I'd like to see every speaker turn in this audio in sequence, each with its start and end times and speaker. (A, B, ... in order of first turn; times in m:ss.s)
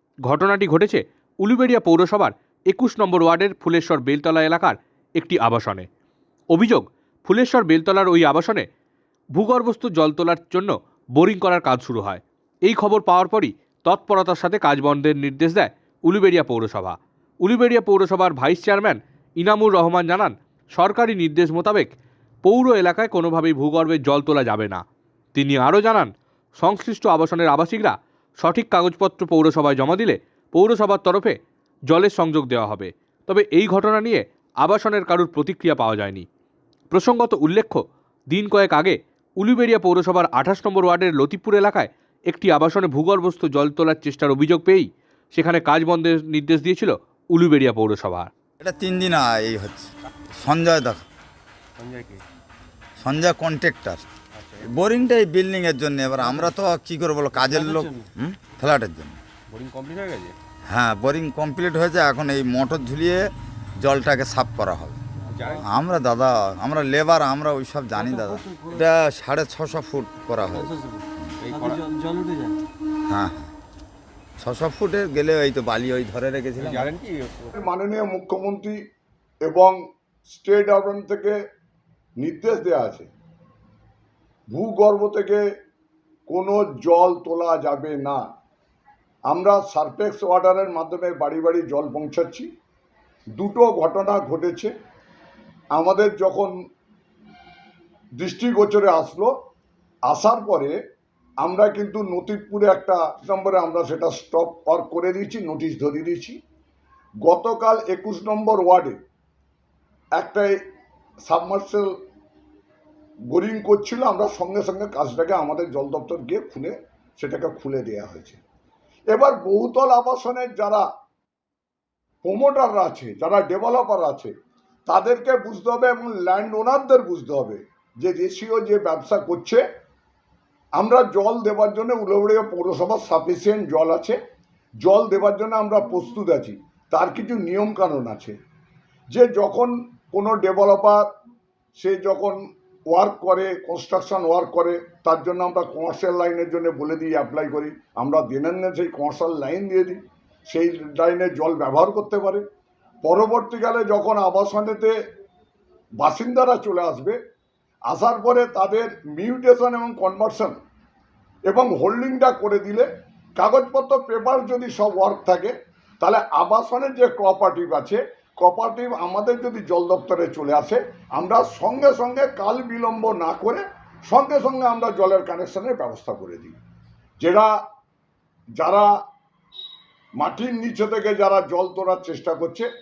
0:00.2-0:05.9 A
0:06.5-0:08.7 A
0:09.4-0:21.9 A
0:22.4-0:24.8 A
0:25.4-0:31.4 A
0:31.9-0:36.2 A
0:36.9-0:48.3 A
0:48.6-0:51.0 B
0:51.8-0:52.2 C
0:53.0-0:54.1 B
0:54.4-0:54.7 C
0:54.6-0:59.2 B
0:57.4-0:58.0 D
0:59.5-1:00.4 C
1:00.7-1:05.0 B
1:05.3-1:05.6 C
1:05.6-1:11.3 B
1:08.0-1:08.8 D
1:10.5-1:12.6 D
1:11.4-1:11.9 C
1:13.1-1:13.5 B
1:14.4-1:16.9 B
1:16.6-1:17.6 C
1:17.6-1:18.8 E
1:19.5-1:19.8 E
1:20.3-1:21.4 E
1:22.2-1:23.1 E
1:24.5-1:25.4 E
1:26.3-1:28.2 E
1:29.3-1:32.5 E
1:33.4-1:34.7 E
1:35.8-1:36.5 E
1:38.2-1:39.3 E
1:40.1-1:40.7 E
1:41.4-1:46.4 E
1:47.2-1:49.0 E
1:50.2-1:50.5 E
1:51.2-1:51.9 E
1:53.3-1:58.4 E
1:59.1-2:00.8 E
2:02.2-2:04.3 E
2:04.9-2:09.6 E
2:10.8-2:14.2 E
2:14.8-2:18.4 E
2:19.1-2:21.0 E
2:21.8-2:22.4 E
2:22.9-2:32.4 E
2:33.0-2:34.9 E
2:36.0-2:37.2 E
2:37.9-2:40.6 E
2:41.5-2:56.6 E
2:57.2-2:57.5 E
2:58.6-2:58.9 E
3:00.2-3:02.7 E